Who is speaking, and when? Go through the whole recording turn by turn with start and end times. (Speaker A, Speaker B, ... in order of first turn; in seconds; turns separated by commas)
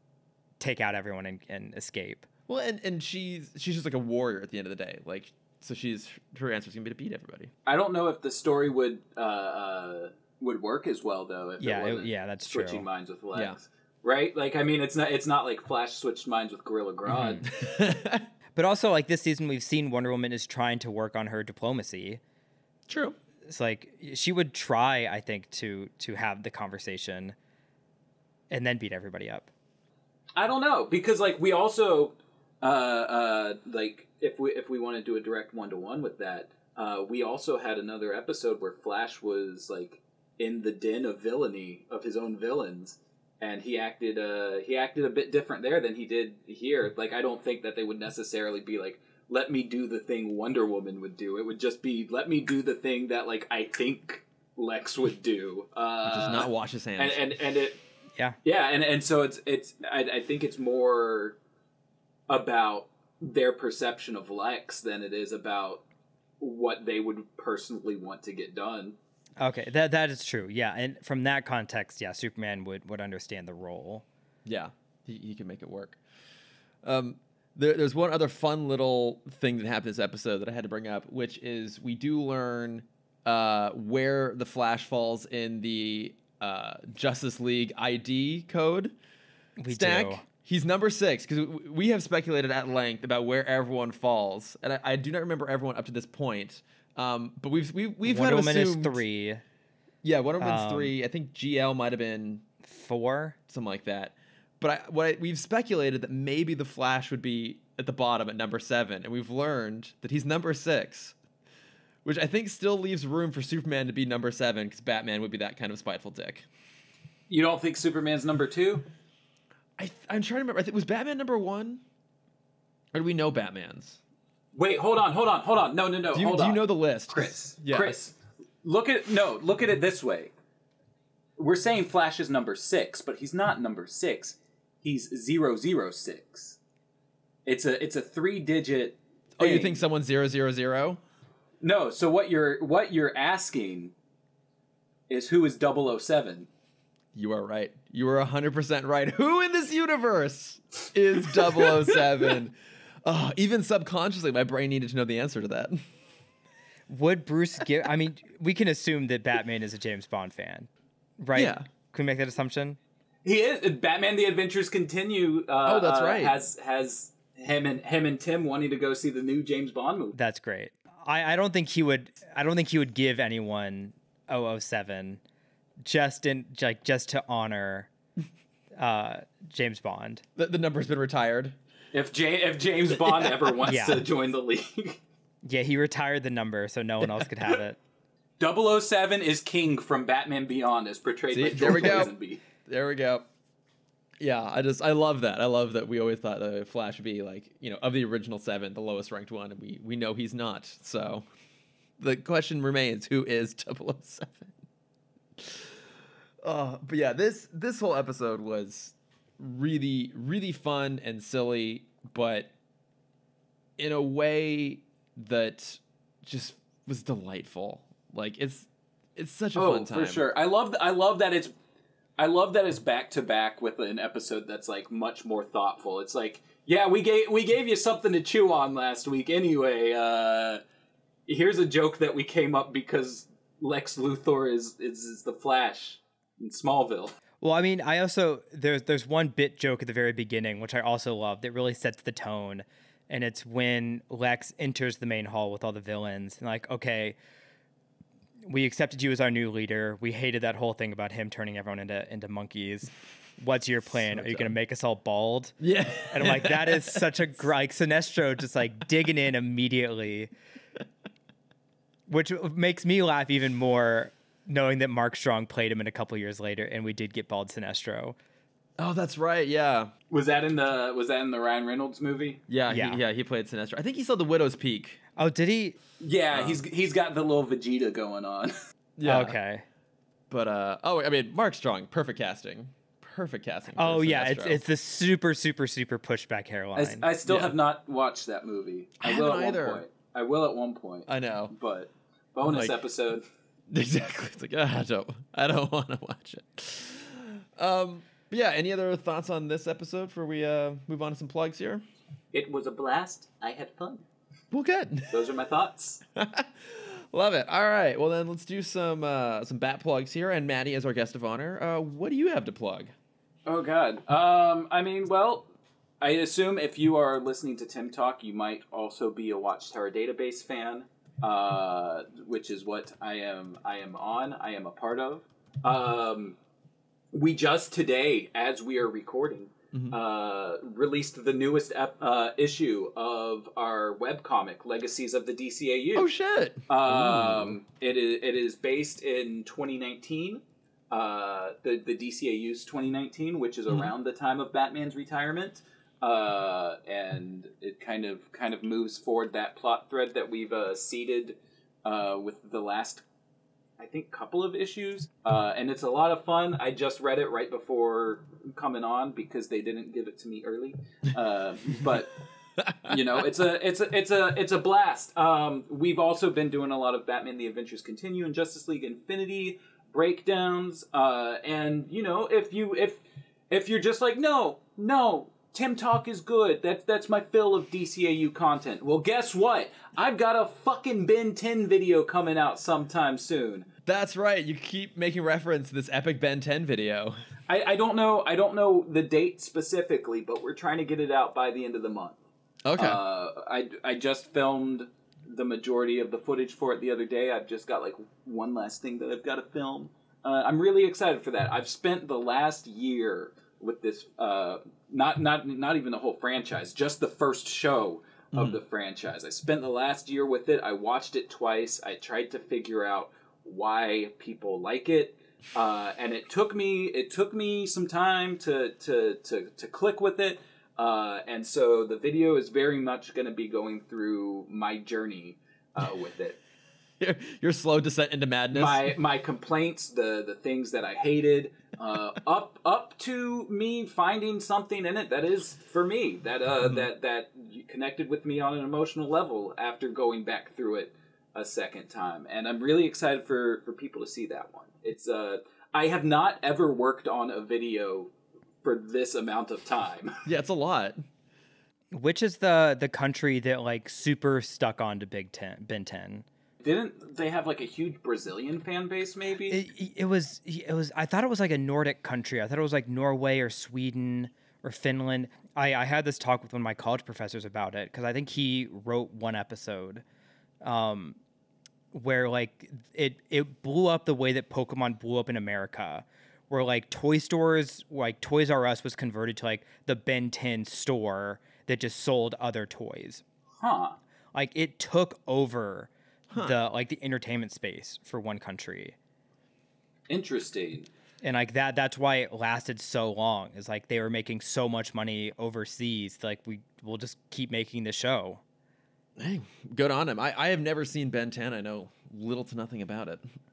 Speaker A: 0.6-2.3, Speaker B: 2.5-7.5, Speaker C: 7.7-17.5, Speaker A: 11.6-12.9, Speaker A: 17.1-17.4, Speaker B: 17.2-18.3, Speaker A: 18.6-22.2, Speaker B: 22.9-23.2, Speaker A: 23.5-27.4, Speaker A: 28.5-29.5, Speaker C: 30.4-57.8, Speaker B: 56.1-57.2, Speaker C: 58.4-61.4, Speaker C: 62.3-65.8, Speaker C: 66.4-69.0, Speaker A: 69.4-74.0, Speaker B: 74.5-76.0, Speaker B: 76.8-89.0, Speaker A: 89.6-90.2, Speaker B: 89.7-99.0, Speaker A: 98.0-99.4, Speaker B: 100.0-102.5, Speaker A: 100.4-100.9, Speaker A: 102.6-103.4, Speaker B: 103.5-111.2, Speaker B: 112.0-116.5, Speaker C: 117.3-118.8, Speaker B: 119.8-121.8, Speaker B: 122.9-124.0, Speaker C: 124.5-130.3, Speaker B: 126.1-128.0, Speaker C: 131.4-136.6, Speaker C: 137.5-139.8, Speaker B: 139.4-141.0, Speaker C: 141.6-143.9, Speaker C: 145.1-146.5, Speaker B: 147.1-155.8, Speaker A: 156.9-162.8, Speaker B: 161.3-161.7, Speaker C: 163.2-170.2, Speaker B: 165.7-166.3, Speaker A: 170.1-175.2, Speaker A: 175.8-177.9, Speaker A: 178.8-180.2, Speaker B: 180.4-181.6, Speaker C: 181.9-185.0, Speaker B: 183.0-183.6, Speaker A: 183.7-184.1, Speaker A: 185.4-187.8, Speaker C: 188.4-192.4, Speaker B: 191.3-192.1, Speaker B: 192.7-193.3, Speaker B: 194.2-201.3, Speaker B: 202.0-204.6, Speaker B: 205.4-205.8, Speaker B: 206.4-212.5, Speaker B: 213.8-220.3, Speaker C: 219.6-221.5, Speaker C: 222.2-230.6, Speaker C: 231.3-237.1, Speaker A: 237.4-247.2, Speaker A: 248.5-255.6, Speaker B: 254.1-254.5, Speaker B: 255.6-257.1, Speaker A: 256.1-260.3, Speaker A: 262.1-268.2, Speaker B: 268.8-269.9, Speaker C: 270.1-272.4, Speaker B: 272.5-275.0, Speaker A: 272.7-273.0, Speaker A: 275.2-275.8, Speaker C: 276.0-278.5, Speaker B: 276.4-276.6, Speaker B: 279.0-279.4, Speaker A: 279.1-279.6, Speaker B: 280.3-284.6, Speaker A: 283.8-287.1, Speaker C: 286.8-293.2, Speaker B: 287.2-287.6, Speaker B: 289.0-289.8, Speaker B: 291.1-291.5, Speaker B: 292.5-292.8, Speaker B: 293.7-301.8, Speaker C: 302.3-304.1, Speaker B: 304.5-305.3, Speaker C: 305.1-306.0, Speaker B: 306.1-312.9, Speaker C: 313.5-315.5, Speaker C: 316.0-326.4, Speaker C: 327.1-336.1, Speaker B: 335.9-337.6, Speaker C: 336.7-353.1, Speaker B: 343.7-343.9, Speaker C: 353.8-362.2, Speaker B: 362.6-363.2, Speaker C: 362.9-383.7, Speaker B: 383.9-387.2, Speaker C: 387.5-392.2, Speaker B: 392.6-393.0, Speaker C: 392.8-426.4, Speaker B: 408.3-408.6, Speaker B: 427.0-428.9, Speaker C: 428.5-448.1, Speaker C: 448.6-450.2, Speaker B: 450.2-451.0, Speaker A: 451.9-456.2, Speaker C: 456.6-459.6, Speaker A: 459.5-470.0, Speaker A: 470.6-471.2, Speaker A: 471.9-483.2, Speaker C: 483.6-484.0, Speaker A: 484.3-489.0, Speaker B: 486.3-486.6, Speaker C: 490.1-490.9, Speaker A: 491.2-498.4, Speaker B: 499.2-503.2